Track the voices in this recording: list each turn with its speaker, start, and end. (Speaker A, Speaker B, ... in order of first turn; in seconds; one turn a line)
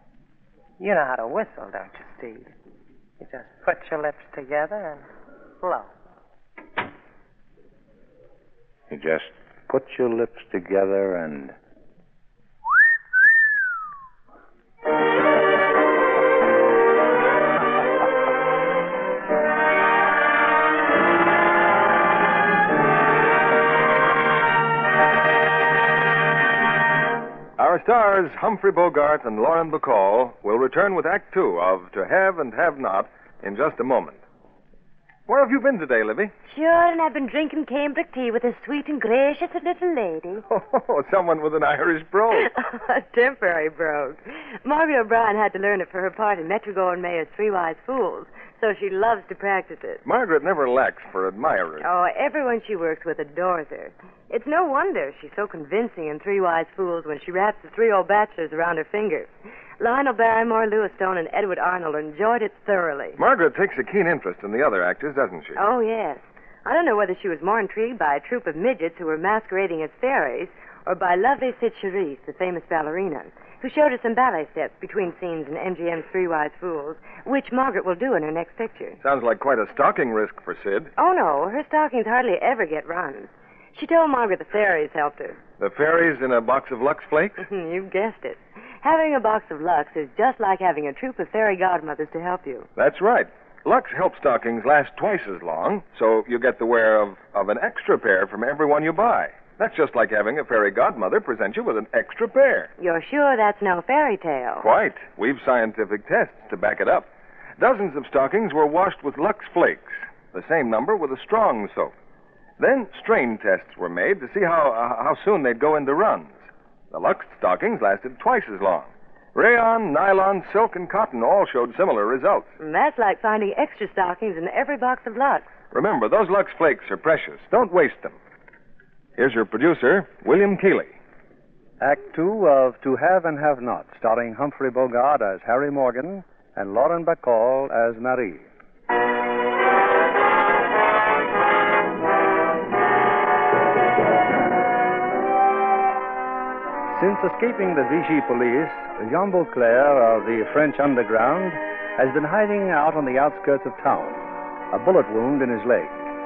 Speaker A: 0.8-2.5
Speaker A: 3.2-5.1
Speaker A: 5.6-5.9
Speaker B: 8.9-11.6
Speaker C: 27.6-34.2
Speaker C: 35.3-36.3
Speaker D: 36.5-40.5
Speaker C: 40.5-42.5
Speaker D: 42.3-50.0
Speaker C: 50.0-51.9
Speaker D: 51.8-63.2
Speaker C: 63.2-65.6
Speaker D: 65.6-79.0
Speaker C: 79.0-80.9
Speaker D: 81.0-85.4
Speaker C: 85.6-87.5
Speaker D: 87.4-92.7
Speaker C: 92.8-102.7
Speaker D: 102.8-104.7
Speaker C: 104.6-111.9
Speaker C: 112.6-122.5
Speaker D: 122.6-125.5
Speaker C: 125.7-128.2
Speaker C: 129.2-130.9
Speaker E: 131.8-138.5
Speaker E: 146.9-154.2
Speaker E: 154.7-155.9